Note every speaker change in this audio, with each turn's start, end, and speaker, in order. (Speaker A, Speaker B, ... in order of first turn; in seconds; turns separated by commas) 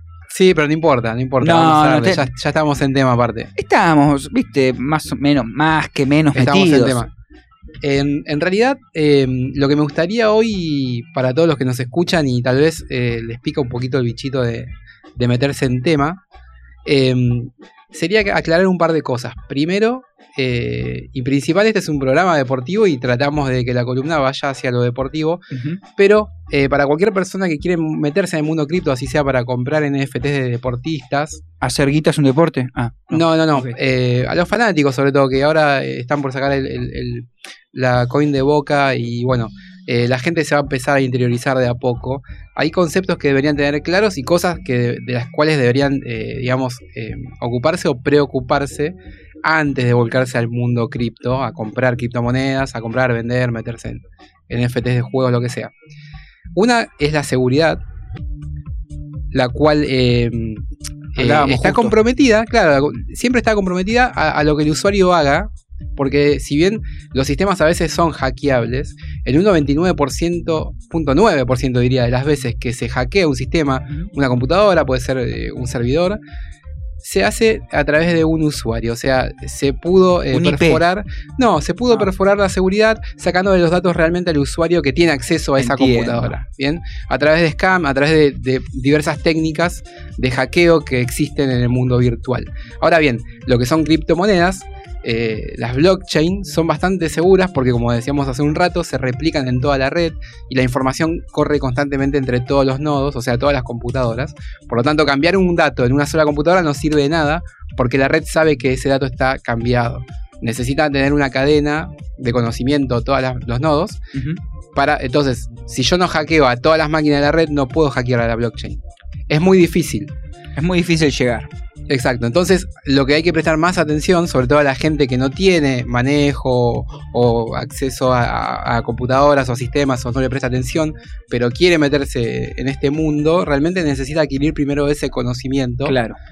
Speaker A: 0.3-3.5, Speaker B: 1.4-2.3, Speaker B: 3.6-7.0, Speaker A: 6.3-7.1, Speaker A: 7.8-16.2, Speaker A: 16.9-25.4, Speaker B: 25.5-25.8, Speaker A: 26.0-31.4, Speaker B: 31.6-33.8, Speaker A: 33.1-55.7, Speaker A: 56.6-57.8, Speaker A: 59.3-60.6, Speaker A: 61.2-76.2, Speaker B: 61.2-62.0, Speaker A: 77.0-114.0, Speaker B: 80.3-80.8, Speaker B: 85.6-86.4, Speaker B: 114.1-114.4, Speaker A: 114.8-120.1, Speaker B: 120.6-121.5, Speaker A: 121.9-135.9, Speaker B: 135.8-136.2